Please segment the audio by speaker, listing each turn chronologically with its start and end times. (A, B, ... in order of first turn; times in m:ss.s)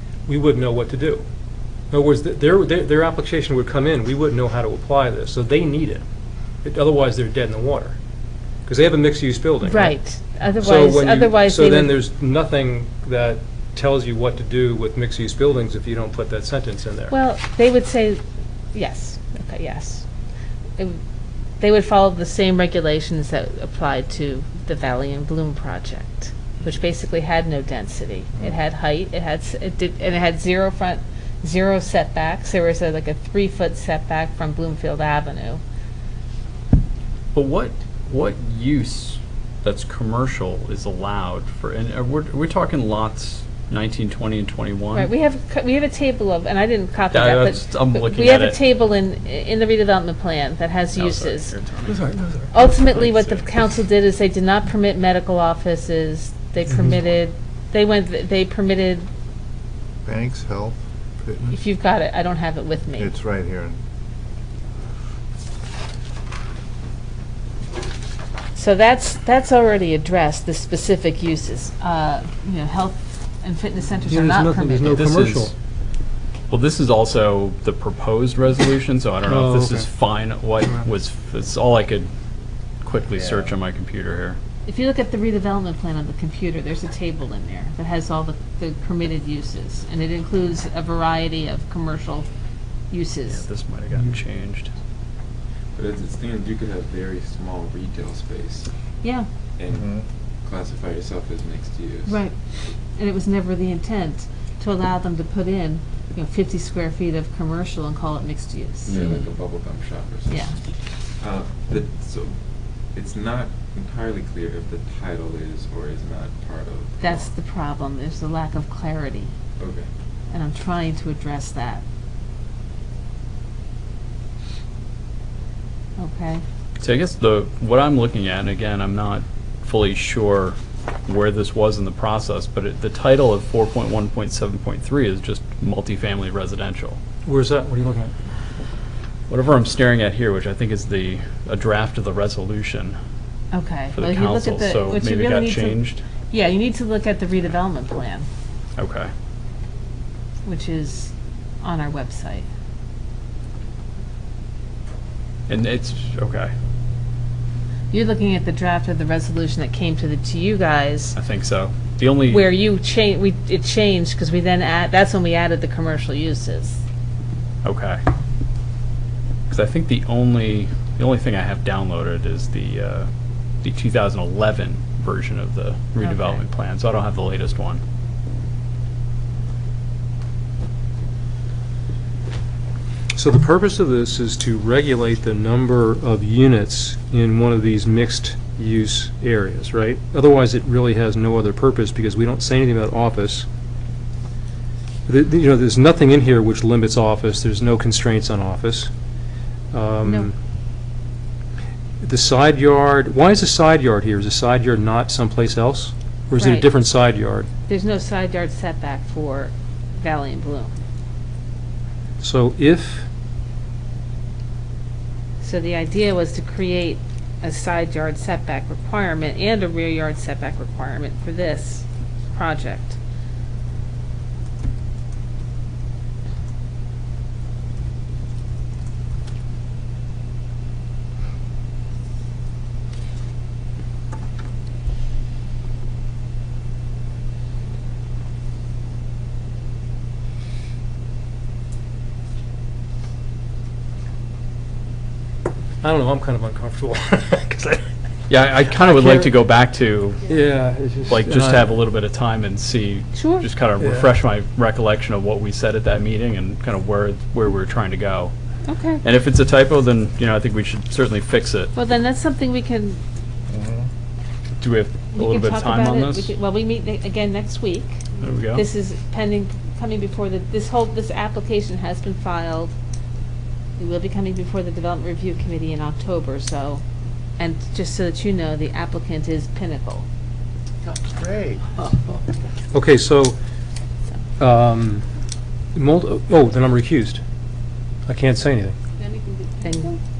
0:00.3-0:01.2 A
0:01.9-0:06.0 A
0:06.6-0:08.0 A
0:08.7-0:10.0 A
0:09.6-0:12.0 B
0:10.6-0:17.1 A
0:17.1-0:20.0 B
0:21.6-0:35.6 B
0:37.3-0:45.1 C
0:44.9-0:51.5 B
0:47.1-0:48.6 C
0:50.9-0:53.5 C
0:51.9-0:52.5 A
0:52.5-0:59.1 B
1:00.0-1:01.6 D
1:01.5-1:03.1 B
1:03.0-1:03.8 D
1:08.6-1:15.0 B
1:14.1-1:15.6 A
1:14.9-1:15.5 C
1:16.5-1:22.1 C
1:19.2-1:19.9 A
1:22.8-1:24.4 C
1:24.7-1:32.3 B
1:32.9-1:33.4 B
1:33.3-1:34.7 C
1:35.7-1:38.7 E
1:39.0-1:39.3 B
1:39.6-1:42.2 E
1:39.7-1:40.0 D
1:42.0-1:49.3 B
1:48.9-1:57.3 E
1:50.3-1:50.6 B
1:57.0-1:59.3 B
1:59.6-1:59.9 E
2:00.3-2:01.8 B
2:06.0-2:06.4 B
2:06.8-2:17.0 C
2:17.2-2:18.2 A
2:19.3-2:23.0 C
2:23.5-2:28.3 B
2:23.9-2:26.0 C
2:28.8-2:29.1 C
2:30.4-2:32.5 B
2:35.5-2:36.5 C
2:37.9-2:41.2 B
2:41.2-2:42.5 C
2:42.3-2:46.8 B
2:47.6-2:48.0 C
2:49.5-2:53.1 C
2:53.6-2:57.8 C
2:56.0-2:56.4 B
3:03.2-3:13.5 A
3:15.1-3:18.9 A
3:19.7-3:20.4 A
3:20.0-3:20.3 B
3:22.0-3:27.5 A
3:26.4-3:26.7 B
3:27.7-3:30.7 B
3:32.2-3:33.1 A
3:35.4-3:43.0 B
4:05.8-4:07.9 A
4:08.3-4:10.3 C
4:08.7-4:09.3 A
4:10.3-4:11.7 A
4:11.1-4:18.3 C
4:13.2-4:13.5 B
4:13.8-4:14.1 A
4:18.7-4:19.0 B
4:19.0-4:21.7 C
4:21.8-4:23.0 B
4:23.5-4:23.9 D
4:24.6-4:26.3 C
4:25.1-4:32.7 B
4:28.2-4:28.6 C
4:33.8-4:36.8 B
4:37.4-4:40.1 B
4:40.9-4:41.6 D
4:42.7-4:43.4 A
4:44.4-4:45.1 A
4:45.7-4:47.2 A
4:48.1-4:48.8 A
4:49.6-4:50.0 B